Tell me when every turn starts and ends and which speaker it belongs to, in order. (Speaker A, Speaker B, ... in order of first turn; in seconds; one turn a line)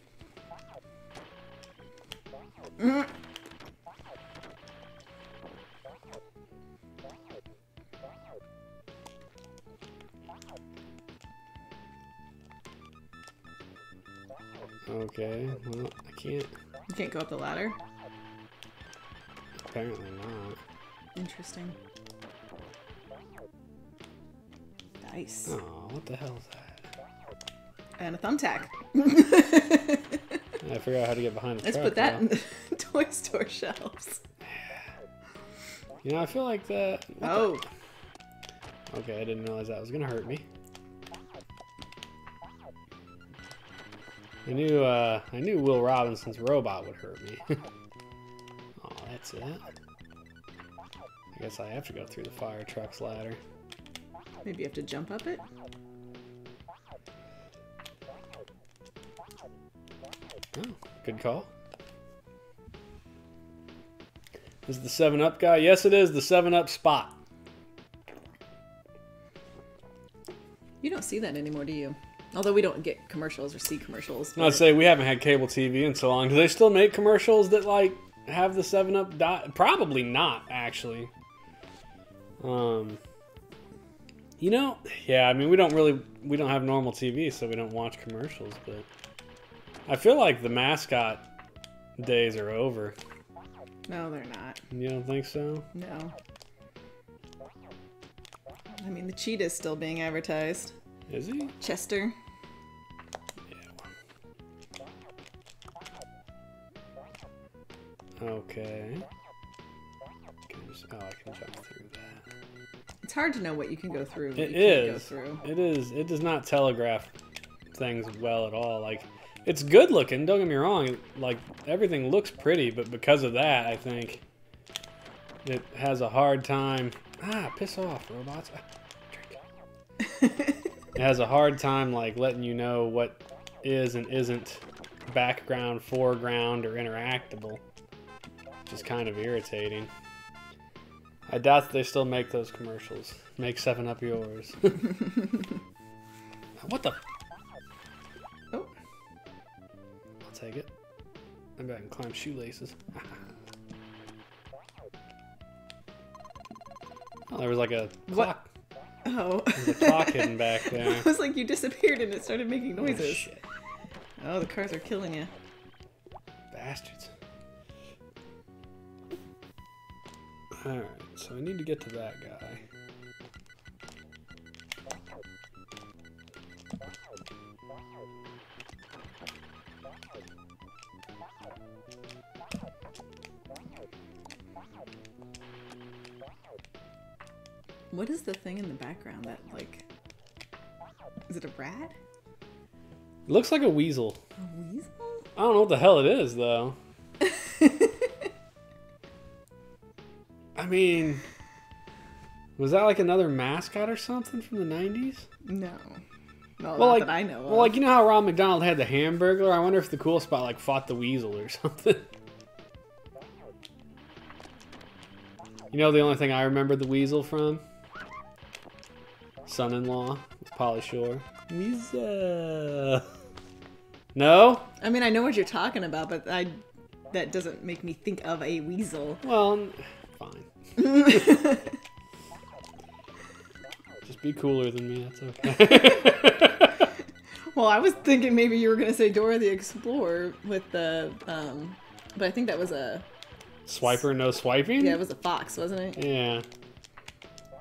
Speaker A: 14.9-16.5
Speaker B: 16.9-17.8
Speaker A: 19.6-20.6
Speaker B: 21.1-21.8
Speaker B: 25.0-25.6
Speaker A: 25.5-26.9
Speaker B: 28.0-30.4
Speaker A: 30.6-32.2
Speaker B: 31.6-34.2
Speaker A: 34.4-34.9
Speaker A: 36.0-37.6
Speaker B: 37.2-37.6
Speaker A: 38.9-40.4
Speaker A: 44.4-47.6
Speaker A: 48.8-49.7
Speaker A: 51.3-53.4
Speaker B: 54.4-55.4
Speaker A: 60.5-61.5
Speaker A: 64.7-67.2
Speaker B: 70.8-74.7
Speaker A: 74.3-81.1
Speaker A: 82.4-83.0
Speaker A: 84.4-88.8
Speaker A: 89.8-91.3
Speaker A: 92.0-93.0
Speaker B: 93.9-94.6
Speaker A: 94.7-95.7
Speaker B: 95.7-96.1
Speaker B: 98.8-100.7
Speaker A: 101.1-101.5
Speaker B: 101.6-102.2
Speaker A: 103.5-103.8
Speaker A: 108.2-109.0
Speaker A: 110.5-112.2
Speaker B: 113.0-115.4
Speaker A: 114.4-117.1
Speaker A: 117.7-124.2
Speaker A: 125.4-129.4
Speaker B: 130.2-130.5
Speaker A: 130.9-137.6
Speaker A: 138.7-139.9
Speaker A: 141.3-145.1
Speaker A: 146.6-147.0
Speaker A: 150.2-150.7
Speaker A: 151.6-153.2
Speaker A: 157.3-158.5
Speaker B: 159.0-163.3
Speaker A: 159.5-161.1
Speaker A: 162.8-163.4
Speaker B: 164.2-165.3
Speaker A: 166.5-167.1
Speaker A: 170.6-172.6
Speaker B: 187.9-189.8
Speaker B: 191.3-191.9
Speaker A: 193.3-194.2
Speaker B: 194.4-195.2
Speaker A: 195.3-196.8
Speaker B: 197.2-198.1
Speaker A: 200.6-201.2
Speaker A: 202.6-205.3
Speaker B: 205.4-206.0
Speaker B: 206.6-207.7
Speaker A: 206.8-212.1
Speaker A: 215.7-217.6
Speaker A: 219.4-223.1
Speaker A: 224.1-224.7
Speaker B: 224.8-229.2
Speaker A: 229.2-231.4
Speaker B: 230.8-231.7
Speaker A: 234.0-236.9
Speaker B: 235.7-236.3
Speaker B: 237.5-243.1
Speaker A: 243.7-245.0
Speaker B: 244.8-246.0
Speaker A: 245.9-246.4